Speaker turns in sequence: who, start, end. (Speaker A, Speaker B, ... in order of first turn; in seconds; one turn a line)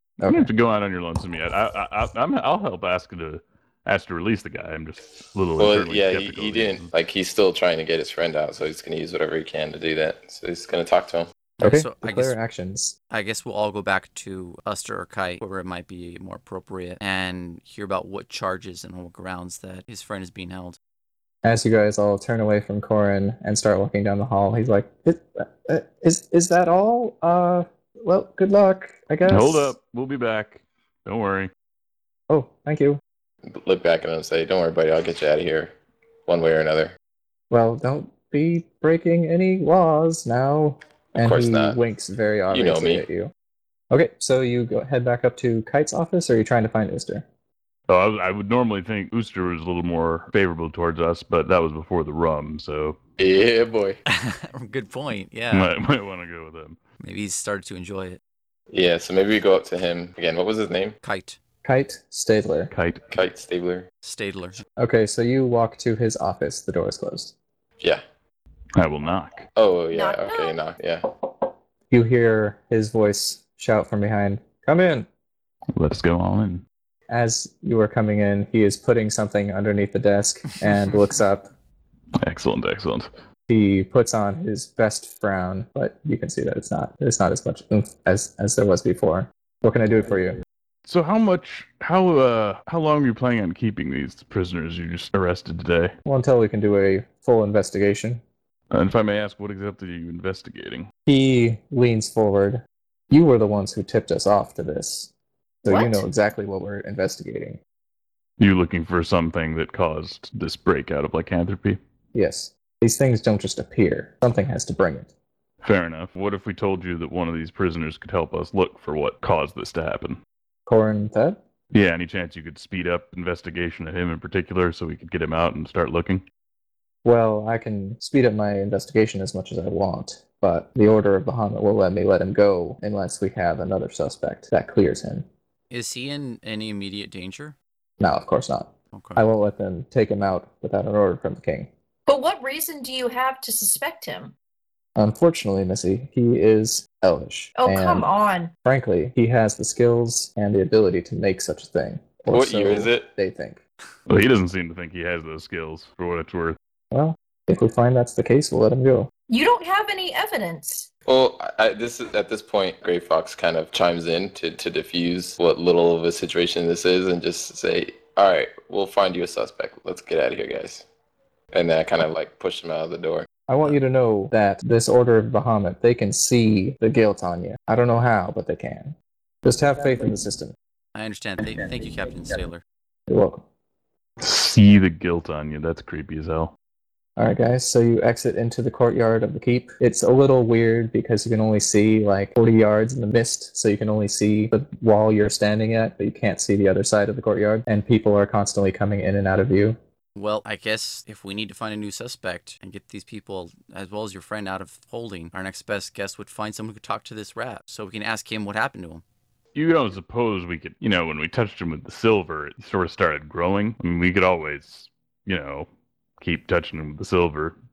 Speaker A: 0.2-0.5
Speaker B: 0.3-6.9
Speaker C: 5.6-11.3
Speaker D: 11.6-12.3
Speaker A: 11.6-12.9
Speaker D: 13.1-20.8
Speaker A: 21.4-29.7
Speaker B: 29.3-31.5
Speaker A: 32.3-33.0
Speaker C: 33.5-35.7
Speaker C: 36.3-36.9
Speaker A: 37.5-43.3
Speaker C: 41.2-41.8
Speaker C: 42.5-43.0
Speaker A: 43.9-47.2
Speaker B: 47.9-53.0
Speaker C: 53.2-54.0
Speaker D: 54.0-55.7
Speaker B: 55.5-56.8
Speaker D: 57.0-58.2
Speaker C: 58.7-61.0
Speaker D: 61.0-61.4
Speaker A: 61.6-62.7
Speaker B: 62.7-63.0
Speaker C: 63.1-63.9
Speaker D: 64.0-64.6
Speaker A: 64.8-67.3
Speaker B: 68.8-69.5
Speaker C: 69.5-71.1
Speaker E: 69.9-70.6
Speaker A: 71.9-75.1
Speaker B: 75.7-76.6
Speaker A: 77.1-81.5
Speaker B: 82.2-83.1
Speaker A: 83.5-90.4
Speaker B: 90.8-95.9
Speaker A: 96.0-98.2
Speaker B: 98.7-100.9
Speaker A: 101.0-105.1
Speaker A: 105.6-107.6
Speaker E: 105.7-106.0
Speaker B: 108.4-111.8
Speaker A: 112.1-115.1
Speaker B: 115.6-120.2
Speaker A: 120.7-121.4
Speaker B: 121.7-126.2
Speaker A: 127.0-135.2
Speaker D: 135.7-137.6
Speaker A: 138.0-141.7
Speaker D: 138.9-139.2
Speaker E: 142.1-144.3
Speaker A: 144.9-148.1
Speaker E: 147.6-148.5
Speaker A: 148.6-153.6
Speaker C: 152.3-153.1
Speaker B: 154.1-156.6
Speaker A: 156.9-159.1
Speaker E: 159.3-160.9
Speaker C: 161.1-170.8
Speaker C: 171.5-173.3
Speaker A: 173.5-180.5
Speaker D: 180.9-182.6
Speaker A: 183.1-183.4
Speaker B: 184.2-186.5
Speaker A: 187.2-199.8
Speaker D: 200.1-209.0
Speaker B: 209.5-215.7
Speaker B: 216.2-217.5